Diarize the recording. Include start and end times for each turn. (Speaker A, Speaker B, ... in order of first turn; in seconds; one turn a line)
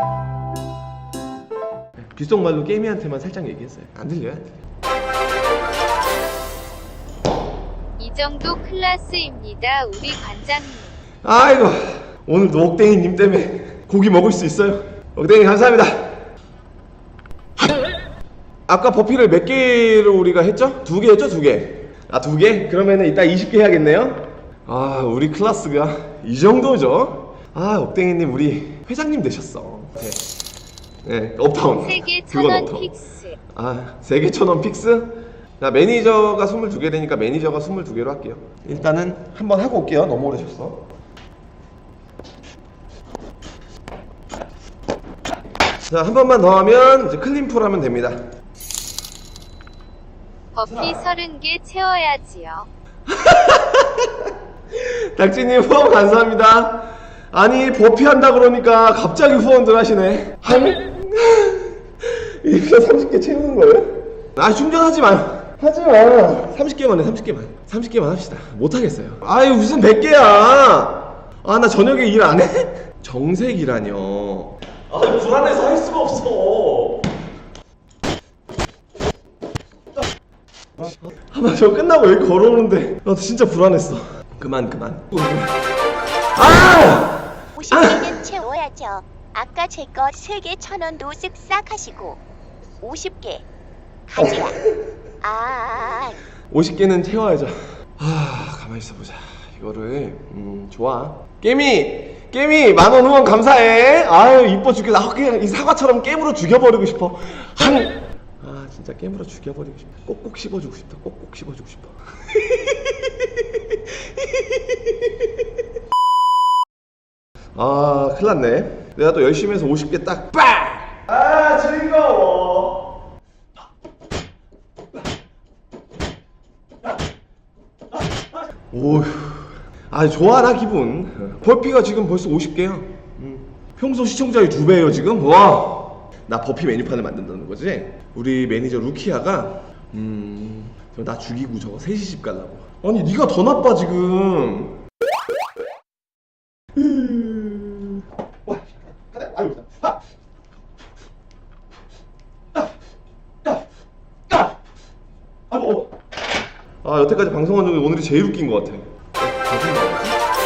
Speaker A: 2.0-4.6
Speaker B: 8.0-10.9
Speaker A: 11.2-16.2
Speaker A: 18.7-30.2
Speaker A: 31.0-32.9
Speaker B: 31.8-33.4
Speaker A: 33.5-40.8
Speaker A: 45.9-48.2
Speaker B: 50.5-52.7
Speaker A: 53.1-77.0
Speaker A: 81.1-85.6
Speaker A: 86.3-88.1
Speaker C: 87.5-92.2
Speaker C: 92.8-93.4
Speaker C: 94.1-94.6
Speaker C: 95.2-96.2
Speaker A: 96.5-114.7
Speaker A: 117.5-123.0
Speaker A: 128.7-144.8
Speaker A: 146.8-148.0
Speaker A: 156.8-160.2